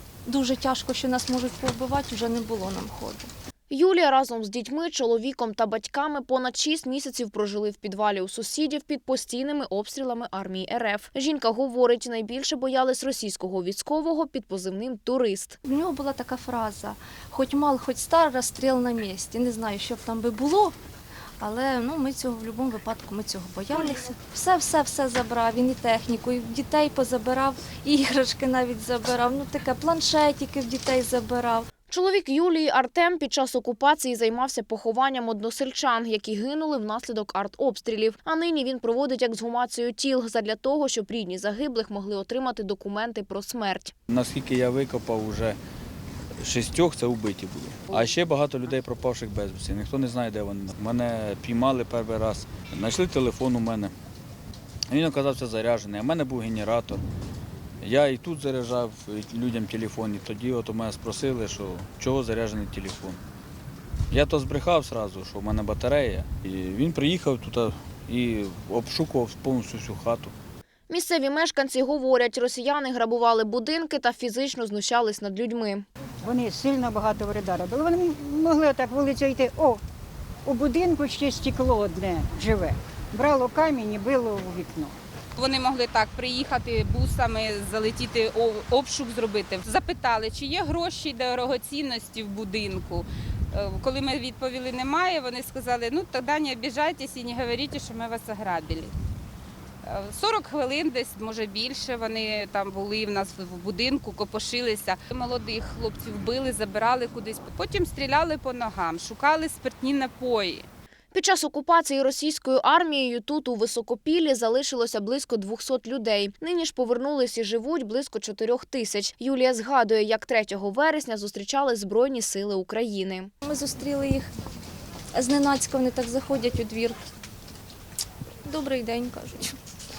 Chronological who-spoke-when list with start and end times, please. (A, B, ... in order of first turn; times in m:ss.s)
0:00.2-0:03.3 A
0:03.7-0:15.6 B
0:15.6-0:20.7 A
0:21.4-0:31.7 A
0:31.9-0:43.9 B
0:44.1-0:45.6 C
0:46.4-0:53.9 C
0:54.9-0:57.0 C
0:57.8-1:03.2 C
1:04.1-1:10.3 C
1:10.9-1:15.8 B
1:16.2-1:19.8 D
1:20.4-1:25.0 D
1:25.4-1:38.9 E
1:39.8-1:50.7 E
1:51.1-2:03.3 B
2:03.4-2:04.3 A
2:05.1-2:07.0 A
2:08.4-2:09.6 A